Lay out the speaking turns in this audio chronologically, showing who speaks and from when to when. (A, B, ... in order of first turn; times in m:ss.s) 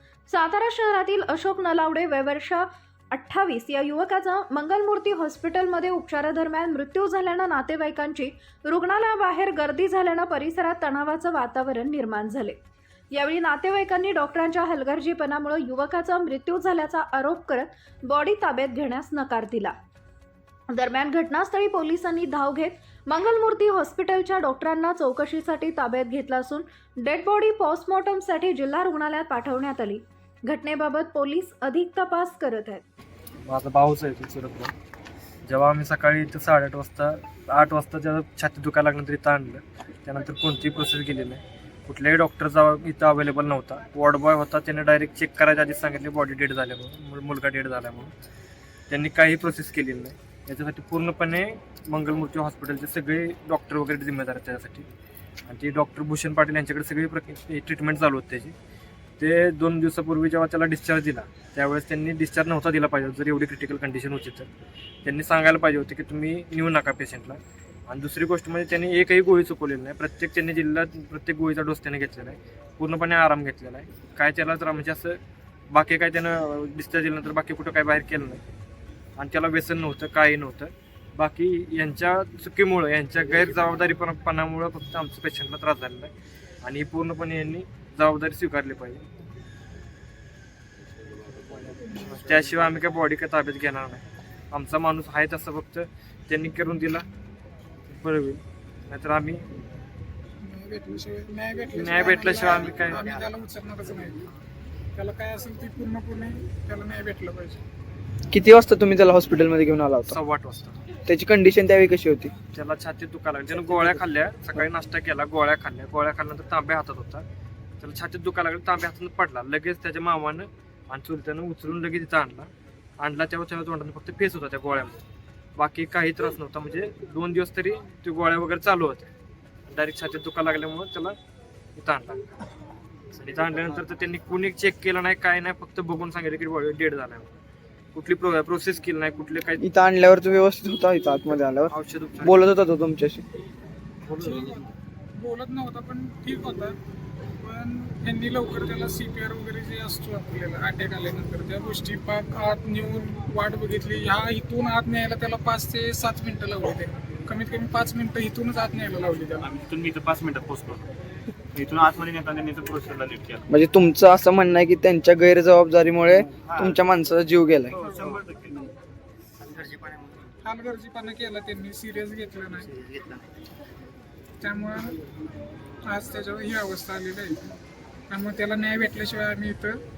0:00.3-0:12.6 A
0:13.1-0:19.8 A
0:20.7-0:32.8 A
0:33.5-0:34.7 B
0:35.5-0:48.1 B
0:48.9-0:54.9 B
0:55.5-0:58.5 B
0:59.2-1:04.5 B
1:05.0-1:18.4 B
1:19.2-1:29.0 B
1:31.8-1:37.1 B
1:37.9-1:39.4 B
1:40.4-1:44.2 C
1:41.8-1:43.1 B
1:45.0-1:47.6 C
1:48.3-1:50.2 D
1:50.1-1:50.8 B
1:51.1-1:52.3 D
1:52.5-1:57.2 B
1:57.8-2:05.0 B
2:05.6-2:09.1 B
2:09.7-2:11.2 B
2:11.8-2:12.2 B
2:13.2-2:17.3 B
2:17.9-2:19.6 B
2:19.6-2:23.2 D
2:21.7-2:22.4 B
2:24.0-2:24.6 B
2:24.2-2:24.7 C
2:25.2-2:26.8 C
2:27.4-2:39.5 C
2:39.4-2:40.9 E
2:41.5-2:43.4 E
2:43.5-2:47.7 D
2:46.4-2:46.8 E
2:47.7-2:48.7 E
2:49.5-2:50.1 E
2:50.4-2:52.8 C
2:52.8-2:53.2 E
2:54.4-2:55.0 C
2:55.8-2:57.5 C
2:58.1-2:59.8 C